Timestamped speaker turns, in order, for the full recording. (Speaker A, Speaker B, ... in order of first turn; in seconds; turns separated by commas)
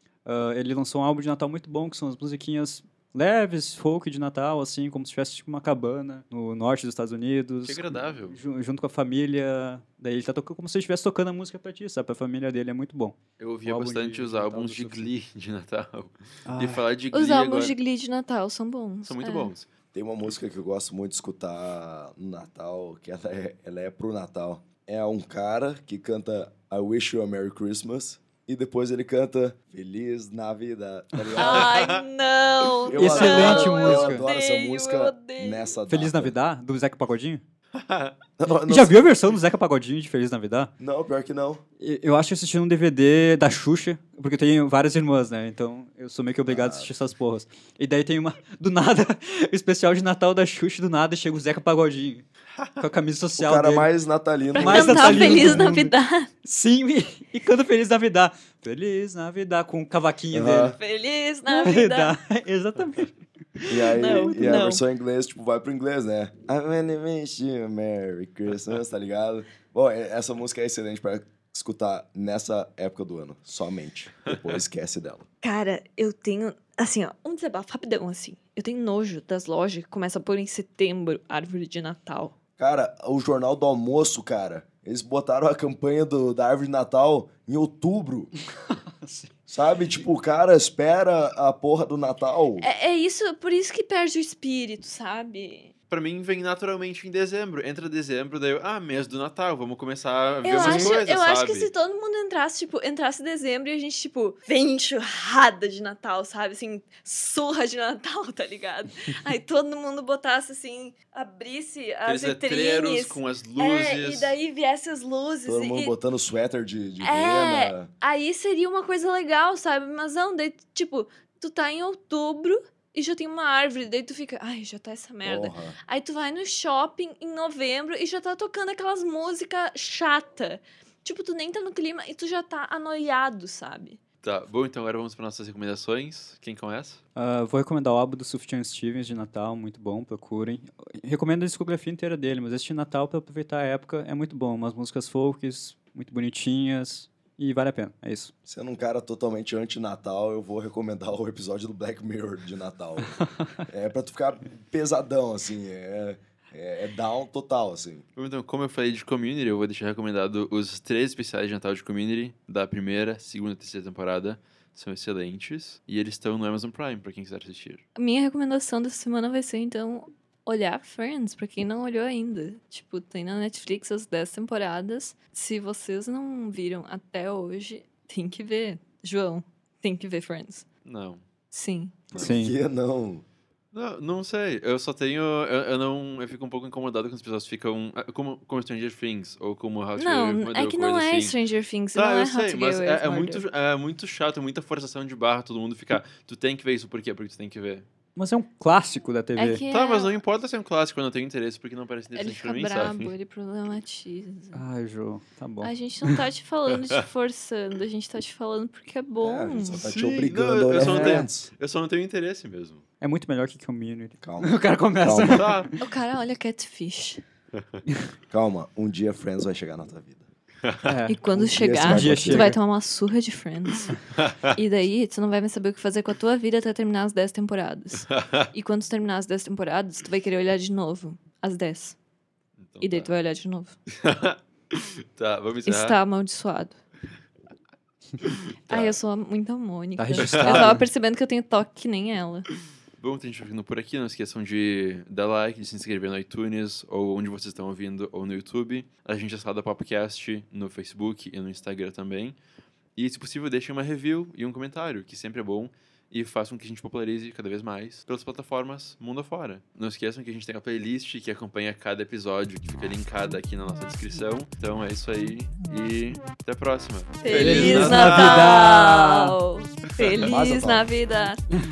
Speaker A: 0.2-15.1, Speaker B: 7.7-8.4, Speaker B: 13.4-17.8, Speaker A: 16.5-16.8, Speaker C: 17.1-19.5, Speaker B: 19.0-19.7, Speaker D: 19.9-31.8, Speaker B: 31.4-32.0, Speaker C: 31.4-35.7, Speaker D: 32.9-36.3, Speaker A: 33.0-34.2, Speaker A: 35.9-37.4, Speaker B: 37.7-38.2, Speaker D: 38.4-39.1, Speaker A: 38.6-40.7, Speaker D: 40.8-41.6, Speaker A: 41.8-52.3, Speaker D: 46.5-46.9, Speaker A: 52.8-53.9, Speaker D: 53.4-55.7, Speaker C: 54.5-56.3, Speaker A: 54.5-60.8, Speaker D: 60.3-60.8, Speaker C: 60.8-62.2, Speaker A: 61.5-63.1, Speaker D: 63.7-75.3, Speaker A: 63.9-64.2, Speaker C: 63.9-64.8, Speaker C: 75.4-82.3, Speaker D: 82.6-88.3, Speaker A: 88.7-89.3, Speaker D: 89.5-92.7, Speaker C: 92.6-95.7, Speaker B: 95.9-101.7, Speaker C: 100.4-115.9, Speaker D: 100.6-100.9, Speaker B: 112.0-114.4, Speaker D: 115.5-117.9, Speaker C: 117.0-134.0, Speaker D: 125.2-125.8, Speaker B: 134.2-137.0, Speaker A: 137.2-148.3, Speaker D: 148.5-158.0, Speaker A: 153.2-153.5, Speaker B: 158.2-167.8, Speaker C: 168.0-180.7, Speaker B: 180.8-181.2, Speaker C: 181.5-182.1, Speaker D: 182.1-183.2, Speaker A: 182.2-182.6, Speaker B: 183.7-191.4, Speaker C: 190.0-193.4, Speaker B: 191.9-197.9, Speaker A: 198.2-199.6, Speaker C: 199.4-200.2, Speaker B: 199.7-203.1, Speaker C: 202.2-204.6, Speaker A: 204.5-206.2, Speaker C: 205.6-209.8, Speaker D: 209.2-211.5, Speaker B: 209.7-212.8, Speaker A: 210.9-211.3, Speaker A: 213.0-215.8, Speaker D: 214.2-215.5, Speaker B: 215.3-215.7, Speaker C: 215.8-217.2, Speaker D: 218.3-220.3, Speaker A: 220.8-221.2, Speaker C: 221.1-224.0, Speaker D: 221.3-222.5, Speaker A: 221.8-222.6, Speaker B: 224.1-224.5, Speaker C: 224.5-232.0, Speaker B: 228.1-228.5, Speaker B: 232.6-233.1, Speaker C: 232.8-233.8, Speaker B: 233.9-236.0, Speaker C: 235.7-236.8, Speaker B: 238.2-239.0, Speaker C: 238.7-242.5, Speaker A: 240.0-240.8, Speaker B: 240.2-240.8, Speaker B: 243.0-252.4, Speaker B: 252.9-268.6, Speaker C: 267.2-271.4, Speaker A: 267.3-269.4, Speaker D: 270.2-270.9